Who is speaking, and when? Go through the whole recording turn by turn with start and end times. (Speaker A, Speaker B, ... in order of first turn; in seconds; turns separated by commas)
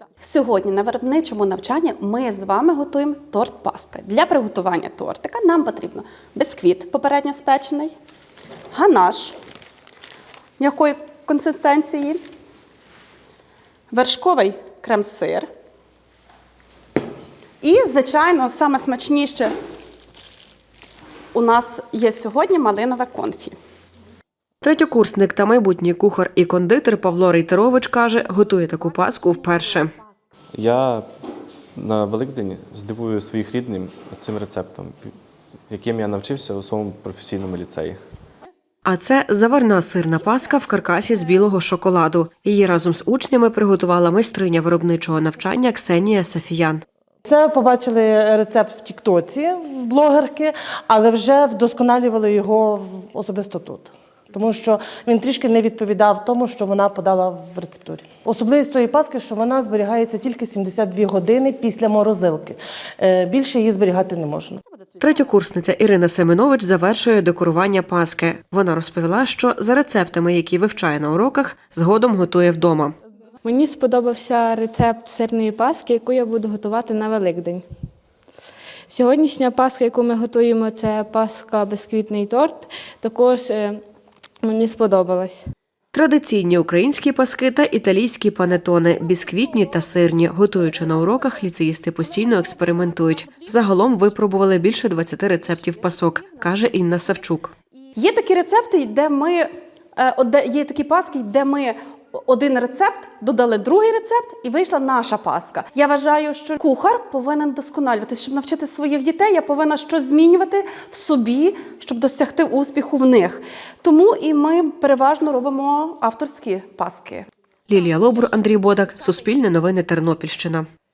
Speaker A: 0.2-7.9, Speaker A: 8.7-9.4, Speaker A: 10.6-12.2, Speaker A: 13.9-15.5, Speaker A: 17.6-19.5, Speaker A: 21.3-23.6, Speaker B: 24.6-29.9, Speaker C: 30.5-31.1, Speaker C: 31.8-35.1, Speaker C: 35.7-38.0, Speaker B: 38.9-46.8, Speaker D: 47.3-64.6, Speaker B: 65.0-73.0, Speaker E: 73.5-77.6, Speaker E: 78.9-83.8, Speaker E: 84.4-85.4, Speaker B: 85.9-97.5, Speaker A: 98.0-117.3, Speaker B: 117.7-120.7